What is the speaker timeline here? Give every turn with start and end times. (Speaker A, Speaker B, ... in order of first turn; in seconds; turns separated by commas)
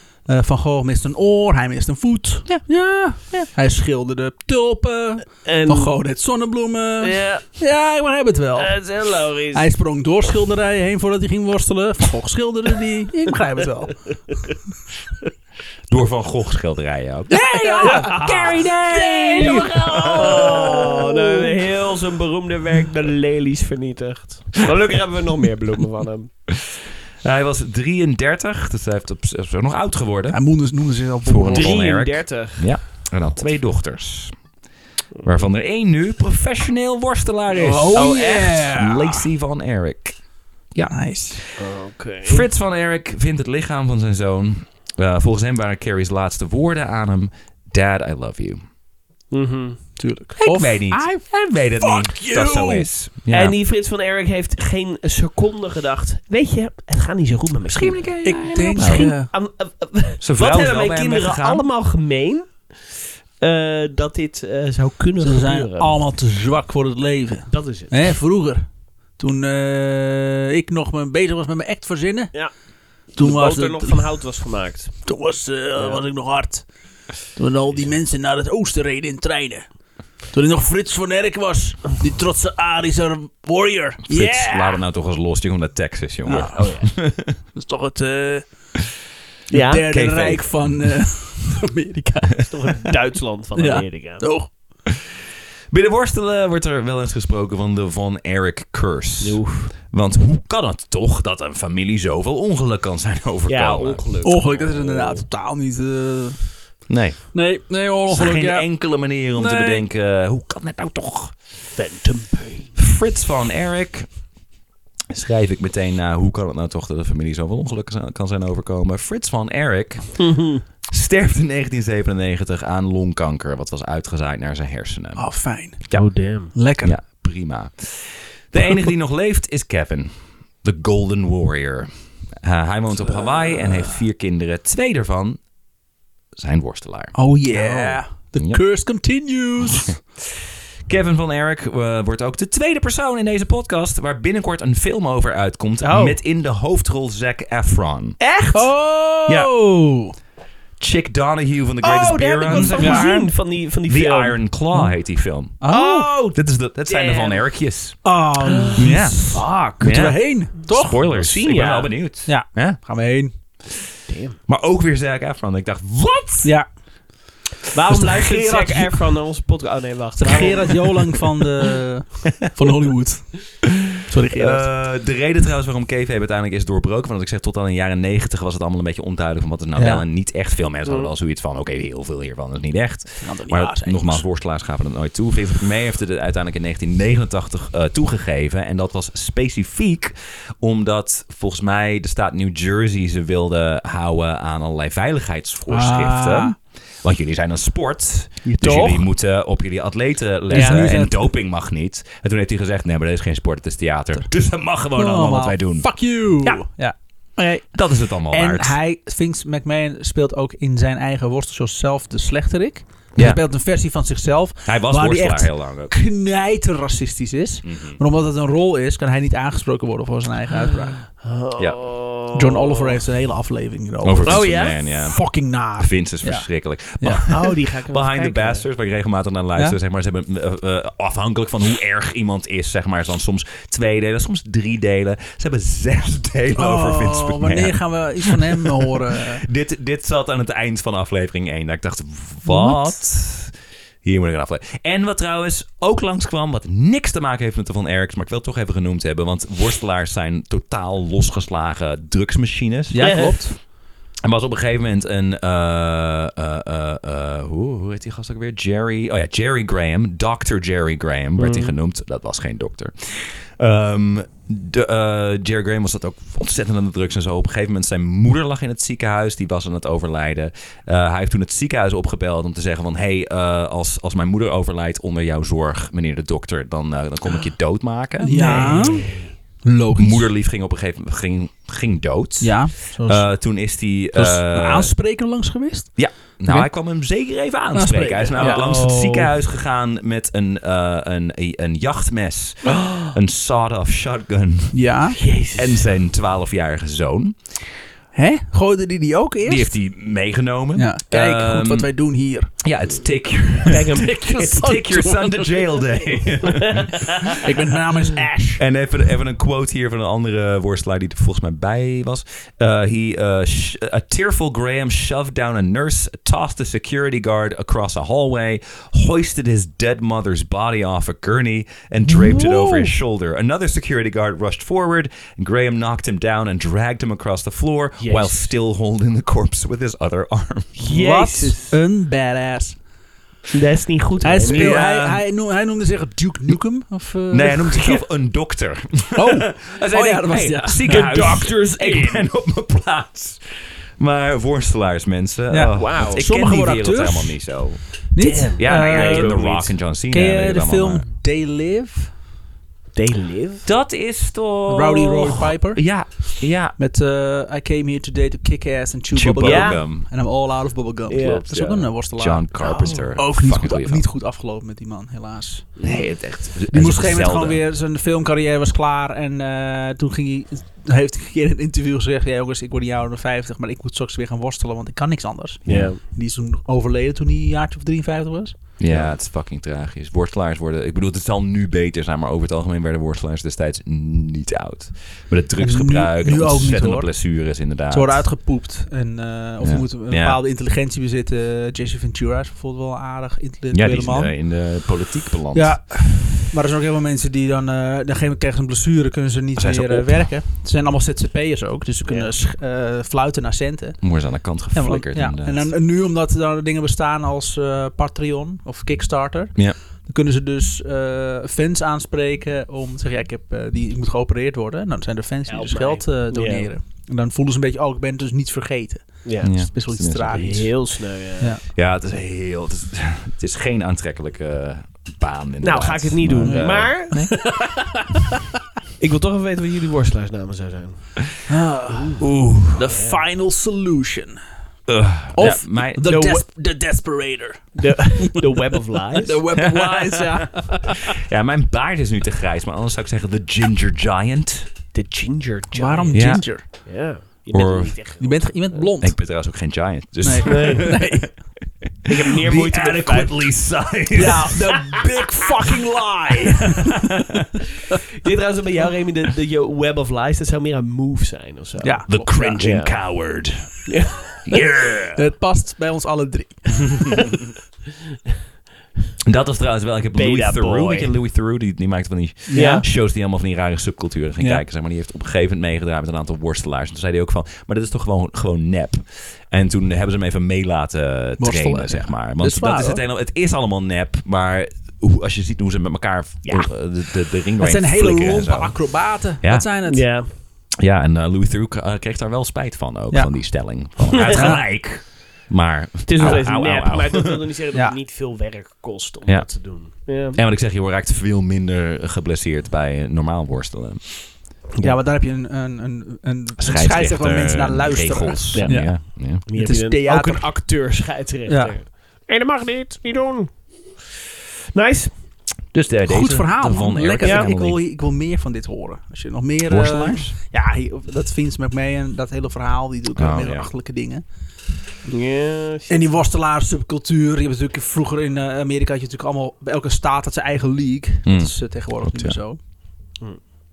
Speaker A: 0.2-8.9, Speaker B: 5.4-5.9, Speaker B: 7.0-7.5, Speaker B: 8.6-9.6, Speaker A: 9.5-14.0, Speaker C: 15.9-20.9, Speaker A: 17.3-18.3, Speaker B: 17.8-26.3, Speaker A: 19.1-21.4, Speaker C: 26.5-30.4, Speaker A: 30.3-31.8, Speaker C: 31.2-34.4, Speaker B: 31.5-32.7, Speaker C: 35.2-40.2, Speaker A: 37.5-39.3, Speaker C: 40.7-41.5, Speaker A: 40.9-41.4, Speaker B: 41.6-42.4, Speaker C: 42.2-48.6, Speaker B: 49.3-49.9, Speaker A: 50.0-51.1, Speaker C: 50.4-53.5, Speaker A: 51.8-52.9, Speaker B: 53.3-62.7, Speaker C: 57.7-59.1, Speaker A: 58.2-59.3, Speaker C: 60.2-61.6, Speaker B: 63.4-66.0, Speaker A: 65.2-68.6, Speaker B: 67.5-67.9, Speaker A: 69.2-72.3, Speaker A: 73.1-74.1, Speaker B: 73.1-75.0, Speaker A: 75.0-76.7, Speaker B: 75.8-76.0, Speaker A: 77.3-79.7, Speaker A: 80.3-84.8, Speaker C: 84.1-87.4, Speaker A: 86.2-86.8, Speaker B: 86.5-86.9, Speaker A: 87.4-88.5, Speaker B: 89.5-90.0, Speaker A: 89.7-92.5, Speaker C: 89.9-90.8, Speaker B: 92.5-94.3, Speaker A: 93.5-94.5, Speaker C: 95.7-104.0, Speaker B: 99.2-99.7, Speaker B: 103.5-105.2, Speaker A: 104.2-106.7, Speaker C: 106.9-107.3, Speaker A: 107.3-108.7, Speaker C: 108.1-111.3, Speaker A: 109.3-109.8, Speaker B: 111.8-112.7, Speaker C: 112.8-114.1, Speaker C: 115.1-125.2, Speaker B: 120.3-120.6, Speaker A: 125.1-127.0, Speaker C: 125.8-135.4, Speaker B: 125.9-126.5, Speaker C: 136.3-138.6, Speaker A: 137.1-139.9, Speaker C: 139.6-148.2, Speaker B: 145.8-146.2, Speaker B: 148.2-148.7, Speaker A: 148.5-150.2, Speaker C: 150.8-155.7, Speaker B: 151.8-154.4, Speaker A: 152.4-153.1, Speaker A: 155.6-156.3, Speaker B: 155.7-156.3, Speaker C: 156.3-158.0, Speaker B: 156.9-157.4, Speaker A: 158.0-161.1, Speaker B: 158.5-158.8, Speaker C: 158.7-162.8, Speaker B: 159.3-159.7, Speaker B: 161.1-161.9, Speaker A: 162.2-163.3, Speaker B: 164.1-164.4, Speaker C: 164.5-166.5, Speaker B: 167.7-171.2, Speaker C: 168.0-168.8, Speaker A: 168.0-168.8, Speaker A: 170.2-174.6, Speaker C: 174.3-206.2, Speaker A: 179.7-180.0, Speaker B: 180.8-181.1, Speaker A: 183.2-184.2, Speaker A: 195.7-196.6, Speaker A: 198.4-199.1, Speaker A: 200.5-201.3, Speaker B: 200.5-200.9, Speaker A: 204.9-221.0, Speaker C: 207.7-208.8, Speaker C: 213.1-213.4, Speaker C: 214.7-215.9, Speaker C: 217.6-218.0, Speaker B: 221.1-223.0, Speaker A: 222.3-226.5, Speaker C: 224.0-253.4, Speaker B: 224.2-224.8, Speaker A: 227.0-227.3, Speaker B: 227.3-228.7, Speaker A: 236.5-239.4, Speaker A: 242.4-242.9, Speaker A: 252.9-253.6, Speaker B: 253.0-253.4, Speaker C: 254.2-278.9, Speaker B: 261.4-261.7, Speaker A: 278.2-280.3, Speaker B: 278.2-279.3, Speaker C: 279.9-284.9, Speaker A: 282.4-283.4, Speaker A: 284.1-286.7, Speaker C: 286.0-294.9, Speaker A: 287.7-288.6, Speaker B: 288.4-289.3, Speaker B: 292.7-293.1, Speaker A: 294.7-295.2, Speaker B: 295.2-295.9, Speaker C: 295.5-297.7, Speaker A: 298.1-299.8, Speaker C: 299.4-301.9, Speaker A: 300.7-302.5, Speaker C: 302.6-307.1, Speaker B: 303.4-305.0, Speaker A: 304.3-306.0, Speaker B: 306.6-307.3, Speaker A: 307.3-308.6, Speaker C: 308.6-330.8, Speaker A: 322.1-322.9, Speaker B: 328.0-328.5, Speaker B: 330.8-331.7, Speaker A: 330.9-332.8, Speaker B: 333.5-334.8, Speaker A: 334.2-338.0, Speaker C: 334.4-335.2, Speaker C: 337.3-351.1, Speaker A: 339.1-341.2, Speaker B: 340.8-342.2, Speaker A: 345.5-347.4, Speaker B: 345.7-346.2, Speaker A: 348.1-352.1, Speaker B: 348.2-349.8, Speaker B: 352.9-353.7, Speaker C: 353.6-356.7, Speaker A: 354.7-365.8, Speaker C: 359.1-360.1, Speaker B: 359.4-359.8, Speaker B: 361.1-361.8, Speaker C: 361.2-364.1, Speaker B: 362.6-363.2, Speaker B: 365.8-366.1, Speaker C: 365.8-367.6, Speaker A: 366.7-378.7, Speaker C: 375.6-376.0, Speaker B: 375.6-376.0, Speaker C: 378.8-388.3, Speaker B: 378.9-379.1, Speaker A: 385.6-394.3, Speaker C: 389.6-390.4, Speaker C: 393.7-395.8, Speaker A: 395.5-421.6, Speaker C: 399.6-400.4, Speaker B: 402.0-402.3, Speaker C: 404.0-405.7, Speaker B: 415.5-416.7, Speaker B: 419.2-419.7, Speaker C: 419.4-420.6, Speaker B: 420.3-421.6, Speaker C: 421.7-427.9, Speaker B: 425.6-427.2, Speaker A: 426.4-428.2, Speaker B: 429.0-431.3, Speaker A: 431.5-434.4, Speaker B: 431.9-432.3, Speaker C: 432.2-432.8, Speaker B: 432.8-433.2, Speaker C: 434.9-436.4, Speaker A: 435.3-441.1, Speaker B: 436.1-436.4, Speaker B: 437.8-439.4, Speaker C: 439.6-440.3, Speaker C: 441.2-444.7, Speaker B: 444.9-448.9, Speaker A: 445.7-446.6, Speaker C: 446.1-446.9, Speaker C: 447.5-448.0, Speaker A: 448.2-449.2, Speaker C: 449.0-451.3, Speaker A: 450.2-451.4, Speaker B: 450.4-451.3, Speaker B: 452.1-453.8, Speaker C: 452.2-455.0, Speaker A: 454.1-457.0, Speaker C: 456.5-457.2, Speaker B: 458.2-463.2, Speaker A: 461.8-462.4, Speaker C: 462.1-463.9, Speaker B: 463.9-464.9, Speaker C: 464.4-465.2, Speaker A: 465.1-467.3, Speaker C: 469.2-489.6, Speaker B: 470.1-471.2, Speaker A: 472.5-472.9, Speaker B: 472.5-472.8, Speaker A: 474.4-474.6, Speaker A: 481.4-483.0, Speaker B: 486.4-486.7, Speaker A: 487.6-490.1, Speaker B: 489.8-490.3, Speaker C: 490.8-497.4, Speaker A: 493.1-494.7, Speaker B: 496.1-500.4, Speaker C: 499.2-499.6, Speaker C: 500.3-504.9, Speaker A: 504.8-510.7, Speaker C: 506.6-509.4, Speaker B: 508.5-514.1, Speaker A: 511.5-511.8, Speaker B: 514.7-515.1, Speaker C: 515.7-517.8, Speaker A: 516.1-524.2, Speaker B: 517.2-517.5, Speaker C: 519.7-520.4, Speaker C: 523.1-523.7, Speaker B: 525.0-526.0, Speaker A: 525.9-532.6, Speaker C: 531.2-532.4